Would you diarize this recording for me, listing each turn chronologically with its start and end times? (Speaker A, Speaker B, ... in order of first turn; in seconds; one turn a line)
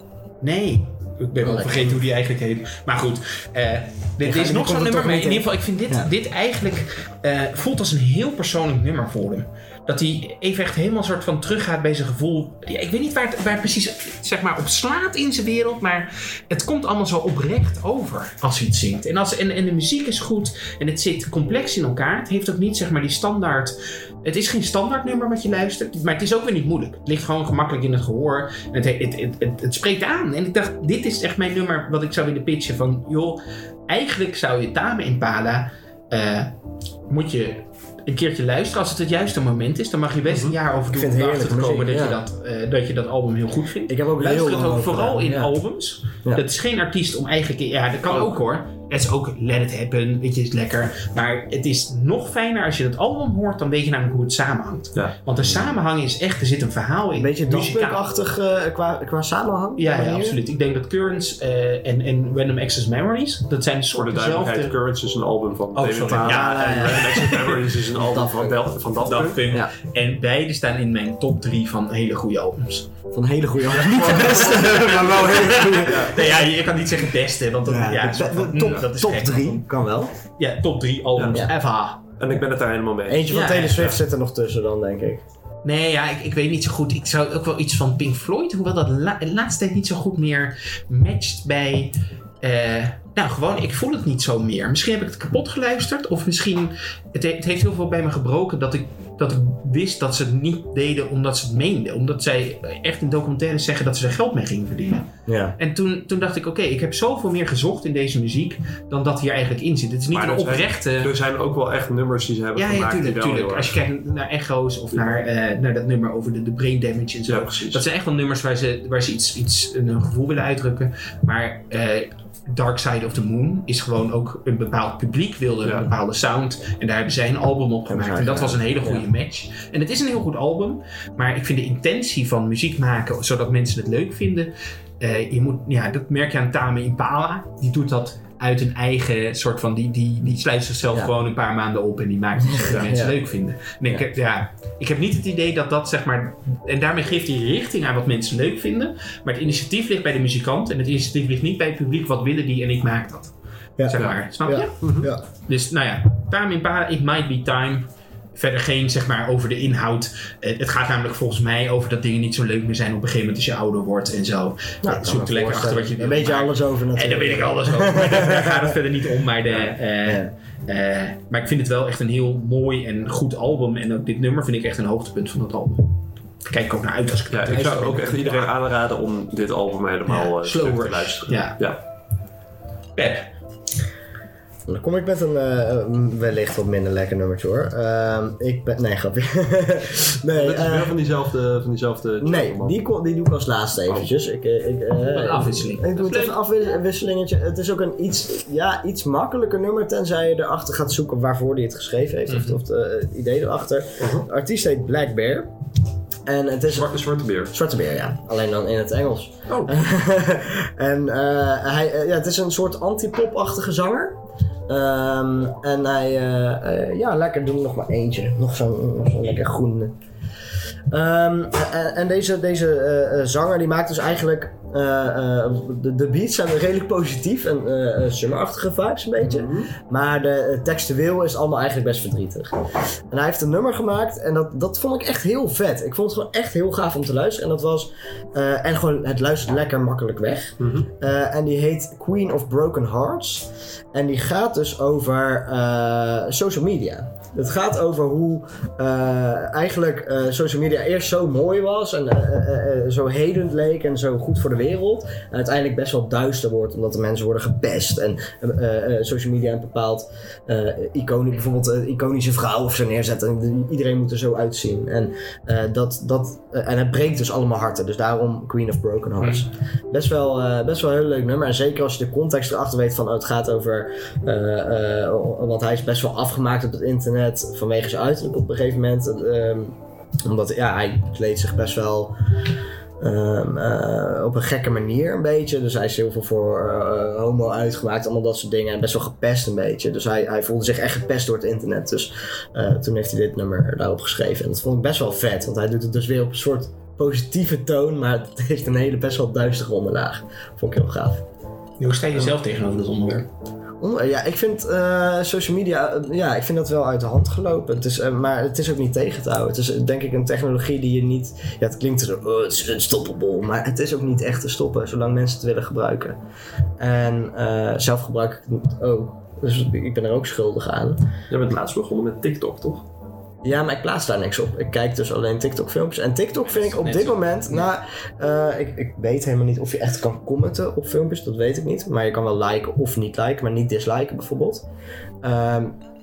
Speaker A: 0.4-36.5
Speaker B: 1.4-2.0
Speaker B: 4.2-6.1
Speaker A: 37.1-58.0
Speaker C: 40.3-40.5
Speaker B: 40.9-42.2
Speaker B: 43.9-45.5
Speaker C: 48.1-48.4
Speaker C: 54.9-55.7
Speaker B: 57.1-60.4
Speaker A: 59.8-64.7
Speaker C: 63.9-69.4
Speaker A: 65.7-67.5
Speaker B: 66.1-68.6
Speaker A: 69.0-72.9
Speaker B: 73.1-76.2
Speaker C: 73.7-76.2
Speaker A: 74.1-79.7
Speaker B: 77.6-80.1
Speaker A: 80.4-82.0
Speaker C: 81.2-81.5
Speaker C: 82.2-84.0
Speaker B: 83.0-85.2
Speaker A: 83.3-83.9
Speaker A: 85.6-111.1
Speaker B: 105.3-105.5
Speaker C: 110.1-113.8
Speaker A: 112.5-153.3
Speaker C: 117.2-117.8
Speaker B: 127.9-129.1
Speaker B: 142.4-143.2
Speaker B: 153.8-155.2
Speaker A: 153.8-154.8
Speaker C: 154.8-155.1
Speaker A: 155.4-175.9
Speaker B: 164.8-168.8
Speaker B: 170.0-170.3
Speaker A: 176.4-178.5
Speaker C: 177.3-181.8
Speaker A: 180.1-181.6
Speaker A: 183.0-183.3
Speaker B: 184.7-191.0
Speaker C: 190.3-192.8
Speaker B: 192.2-205.5
Speaker A: 195.0-196.4
Speaker A: 202.3-202.6
Speaker C: 204.0-204.2
Speaker B: 206.2-219.9
Speaker C: 206.7-207.5
Speaker C: 209.5-209.7
Speaker B: 220.9-232.6
Speaker C: 229.2-229.7
Speaker B: 233.1-282.1
Speaker C: 240.6-240.9
Speaker B: 283.0-301.2
Speaker A: 301.8-303.3
Speaker B: 303.8-316.2
Speaker B: 316.8-321.1
Speaker C: 321.3-322.8
Speaker B: 323.4-334.6
Speaker A: 326.5-327.7
Speaker B: 335.2-335.8